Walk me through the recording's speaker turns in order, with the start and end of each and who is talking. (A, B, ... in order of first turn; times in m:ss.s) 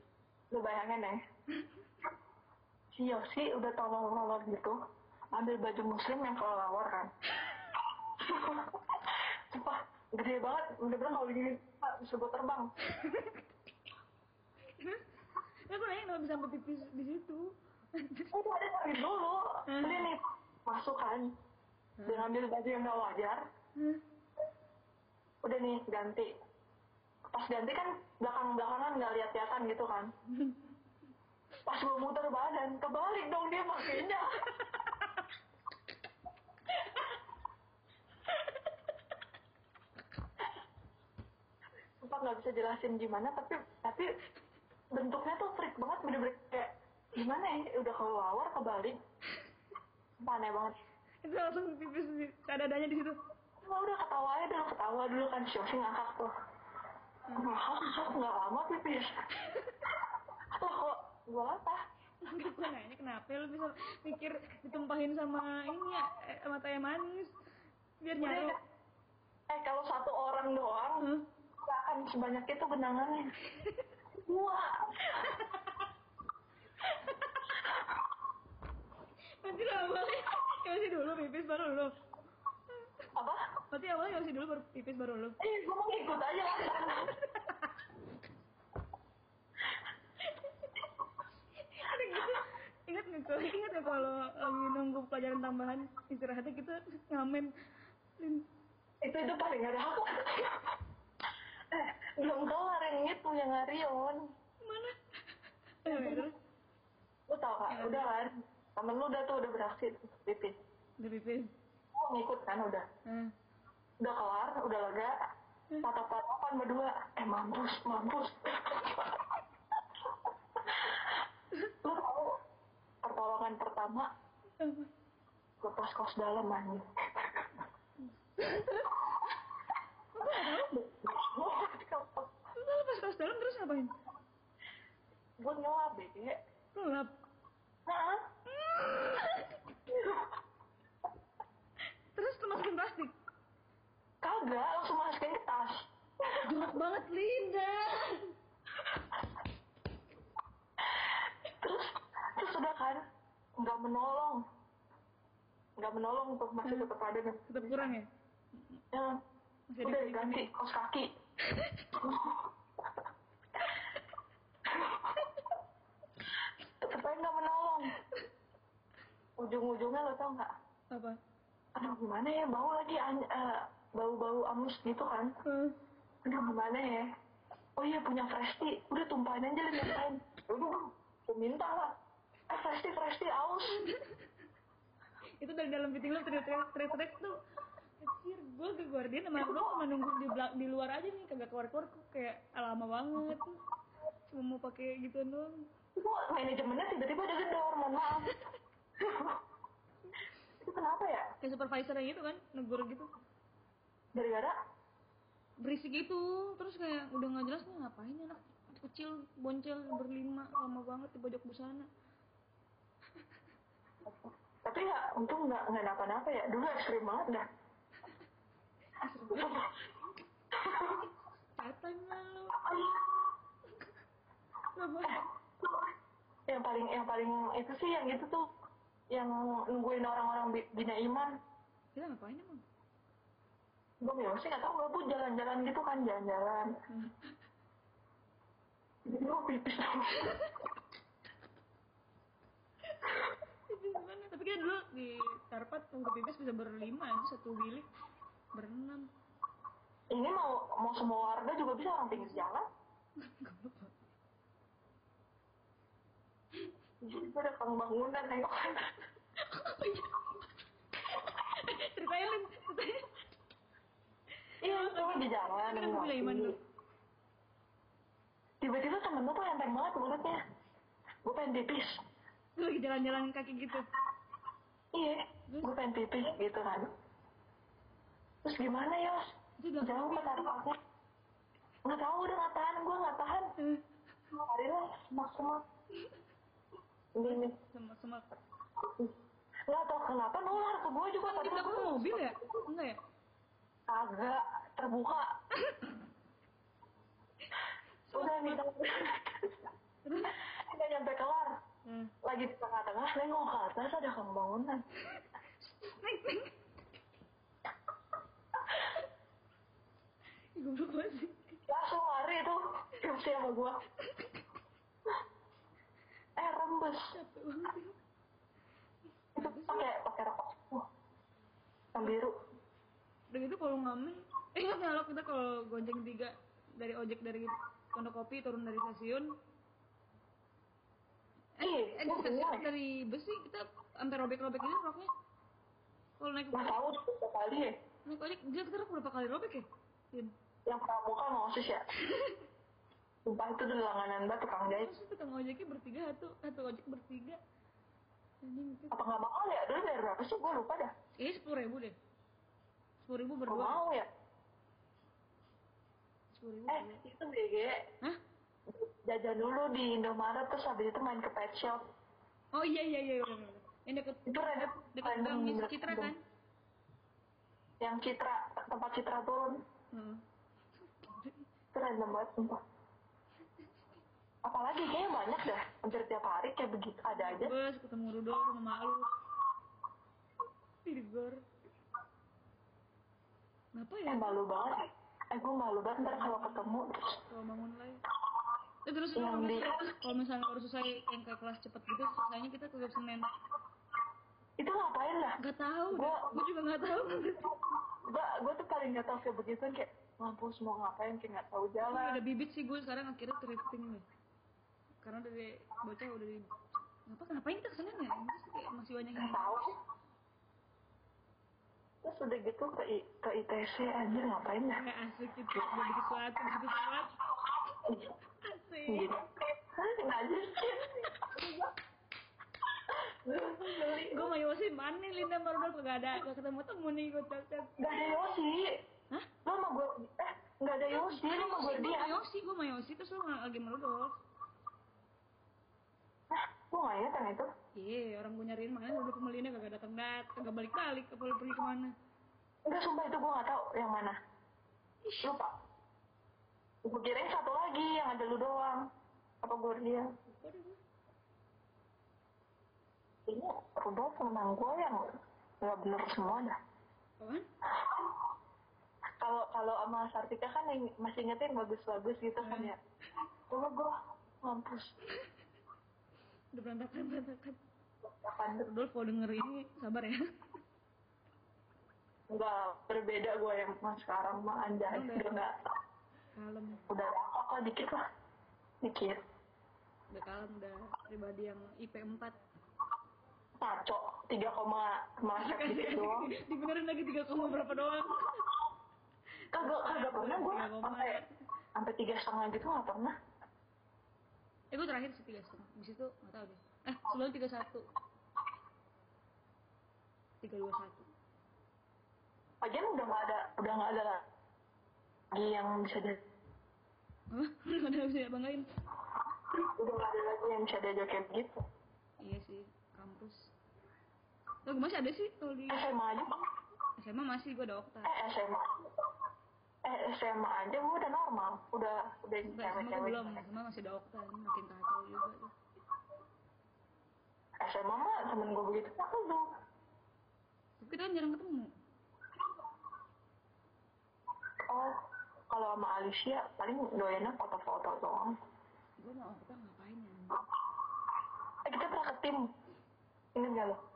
0:00.5-0:01.2 A
0:02.9-0:04.8 A
0:05.3-0:07.1 A
0:08.2-0:12.7 A
0:13.0-0:13.4 B
0:15.7-0:18.3 B
0:18.3-0:21.2 A
0:19.7-0:20.1 B
0:22.0-0:22.3 B
0:22.0-0:23.4 A
0:25.4-0:26.3 A
0:27.3-0:30.1 A
0:31.6-0:34.4 A
0:34.5-0:35.1 B
0:42.0-0:44.0 A
0:44.9-0:49.0 A
0:50.2-0:50.8 A
0:51.2-0:53.1 B
0:53.6-0:56.3 A
0:57.3-0:59.1 A
0:59.4-0:59.8 B
1:00.6-1:01.8 A
1:02.2-1:07.3 B
1:08.0-1:08.5 B
1:08.2-1:08.5 A
1:09.5-1:11.0 A
1:11.6-1:13.3 A
1:13.5-1:13.9 B
1:14.2-1:15.3 A
1:15.1-1:15.8 B
1:16.8-1:17.4 B
1:19.4-1:21.9 B
1:23.7-1:25.4 B
1:25.4-1:27.1 A
1:27.2-1:27.8 B
1:30.3-1:30.7 B
1:31.6-1:37.5 B
1:38.2-1:38.4 B
1:39.0-1:40.6 A
1:41.7-1:44.2 A
1:44.6-1:45.0 B
1:45.9-1:46.3 B
1:45.9-1:46.3 A
1:47.3-1:50.5 A
1:47.7-1:48.1 B
1:51.0-1:51.5 B
1:52.0-1:52.8 A
1:54.0-1:55.1 A
1:55.8-1:59.2 A
2:00.6-2:01.0 A
2:01.8-2:02.3 A
2:03.0-2:04.0 A
2:04.6-2:04.9 B
2:05.6-2:07.5 A
2:08.4-2:09.3 B
2:10.1-2:10.7 B
2:10.2-2:12.3 A
2:12.6-2:13.9 B
2:15.4-2:16.4 A
2:16.7-2:17.1 B
2:17.9-2:18.2 A
2:18.5-2:19.7 B
2:19.9-2:20.3 A
2:22.1-2:23.1 B
2:24.2-2:26.5 A
2:26.4-2:28.3 B
2:31.0-2:33.0 A
2:33.6-2:34.4 A
2:35.8-2:38.0 A
2:36.6-2:36.9 B
2:37.5-2:38.0 B
2:39.7-2:40.5 B
2:39.8-2:41.1 A
2:41.5-2:41.9 B
2:42.0-2:42.5 A
2:44.7-2:45.1 A
2:46.8-2:47.9 A
2:49.4-2:50.5 A
2:50.9-2:51.2 B
2:51.8-2:55.3 A
2:55.5-2:55.7 B
2:56.2-2:57.0 A
2:57.8-3:01.9 A
3:02.5-3:03.8 A
3:03.9-3:04.2 B
3:05.4-3:07.4 B
3:08.0-3:13.5 B
3:09.4-3:09.8 A
3:14.3-3:15.5 B
3:16.0-3:18.3 A
3:19.0-3:19.4 A
3:20.6-3:21.2 A
3:21.4-3:23.1 B
3:24.1-3:24.5 A
3:25.6-3:31.9 B
3:34.1-3:37.4 A
3:39.0-3:39.7 B
3:39.3-3:39.7 A
3:40.6-3:41.1 A
3:41.6-3:42.7 B
3:42.6-3:43.2 A
3:44.8-3:45.2 B
3:45.1-3:45.8 A
3:46.5-3:48.4 A
3:49.1-3:51.3 A
3:51.9-3:52.6 B
3:54.0-3:56.7 A
3:56.9-3:57.3 B
3:59.1-4:00.4 A
4:00.2-4:00.5 B
4:03.7-4:07.9 B
4:08.5-4:09.0 B
4:10.1-4:12.6 A
4:12.1-4:12.4 B
4:13.2-4:13.9 B
4:17.0-4:18.9 A
4:19.5-4:20.4 B
4:21.2-4:23.0 B
4:24.6-4:26.5 A
4:24.6-4:26.6 B
4:28.6-4:30.4 A
4:31.2-4:32.0 A
4:32.6-4:33.9 B
4:34.9-4:36.9 A
4:38.4-4:39.2 A
4:39.6-4:40.5 B
4:39.8-4:40.8 A
4:41.8-4:43.5 A
4:44.3-4:45.6 A
4:47.2-4:47.5 A
4:47.2-4:48.2 B
4:49.7-4:52.6 A
4:51.2-4:53.0 B
4:53.9-4:55.2 A
4:55.6-4:55.9 B
4:58.1-4:58.6 B
4:58.1-4:59.7 A
5:00.0-5:00.4 B
5:00.4-5:01.5 A
5:01.8-5:02.1 B
5:02.2-5:04.8 A
5:05.2-5:06.5 B
5:08.7-5:09.0 B
5:10.6-5:11.5 B
5:11.7-5:13.8 A
5:14.0-5:14.4 B
5:16.4-5:17.1 A
5:17.1-5:17.9 B
5:19.4-5:19.8 B
5:19.4-5:20.8 A
5:21.9-5:22.3 A
5:23.3-5:29.2 B
5:31.6-5:35.1 B
5:31.6-5:32.7 A
5:36.2-5:36.8 B
5:36.5-5:37.7 A
5:38.0-5:40.3 B
5:40.7-5:41.8 A
5:42.0-5:42.4 B
5:43.2-5:44.9 A
5:44.7-5:47.4 B
5:48.4-5:49.0 B
5:48.9-5:50.9 A
5:51.2-5:51.9 B
5:53.0-5:53.8 B
5:53.5-5:54.1 A
5:56.3-5:57.0 B
5:56.7-5:57.8 A
5:58.7-6:01.8 A
6:02.5-6:06.2 B
6:04.3-6:06.1 A
6:07.8-6:09.6 A
6:09.9-6:10.2 B
6:11.0-6:11.4 B
6:11.7-6:12.6 A
6:14.4-6:17.5 A
6:17.1-6:19.0 B
6:20.8-6:21.4 B
6:23.8-6:24.4 B
6:24.1-6:24.7 A
6:25.3-6:27.0 A
6:26.0-6:26.8 B
6:27.3-6:28.0 B
6:28.8-6:33.3 B
6:29.2-6:30.0 A
6:34.6-6:35.4 A
6:35.4-6:37.5 B
6:35.9-6:36.4 A
6:37.6-6:42.2 A
6:41.9-6:44.0 B
6:45.0-6:46.5 B
6:47.1-6:49.6 B
6:49.2-6:49.7 A
6:52.0-6:54.8 A
6:54.8-6:57.1 B
6:57.8-6:58.1 A
6:58.4-6:59.1 B
6:58.9-7:01.6 A
7:00.8-7:01.4 B
7:02.9-7:04.3 A
7:03.9-7:08.0 B
7:07.8-7:08.6 A
7:09.4-7:12.1 A
7:10.9-7:14.2 B
7:16.3-7:17.4 A
7:17.8-7:21.9 B
7:22.7-7:24.1 A
7:25.0-7:25.4 B
7:25.2-7:25.5 A
7:26.8-7:28.8 A
7:29.4-7:30.0 A
7:30.4-7:30.8 B
7:33.3-7:35.0 A
7:35.6-7:36.6 A
7:37.2-7:37.4 B
7:37.7-7:38.1 A
7:39.2-7:42.8 A
7:42.4-7:42.7 B
7:43.5-7:44.9 A
7:46.5-7:47.6 B
7:48.1-7:48.7 A
7:48.6-7:50.2 B
7:52.3-7:55.5 A
7:54.9-7:55.3 B
7:56.4-7:56.8 B
7:56.9-7:58.0 A
7:58.8-7:59.2 A
8:00.1-8:02.4 B
8:03.6-8:06.3 A
8:05.4-8:08.4 B
8:09.5-8:11.2 A
8:09.5-8:11.2 B
8:11.8-8:13.1 A
8:14.7-8:17.9 B
8:20.4-8:21.0 B
8:22.6-8:24.2 A
8:25.3-8:26.2 A
8:27.3-8:28.6 B
8:29.8-8:31.5 A
8:32.2-8:33.5 B
8:34.6-8:35.9 B
8:35.7-8:36.3 A
8:37.0-8:38.1 B
8:38.0-8:38.6 A
8:39.8-8:43.5 A
8:42.5-8:45.5 B
8:47.6-8:49.4 A
8:50.8-8:51.7 B
8:55.5-8:58.3 A
8:59.0-9:00.4 B
9:01.6-9:02.4 A
9:03.4-9:03.8 A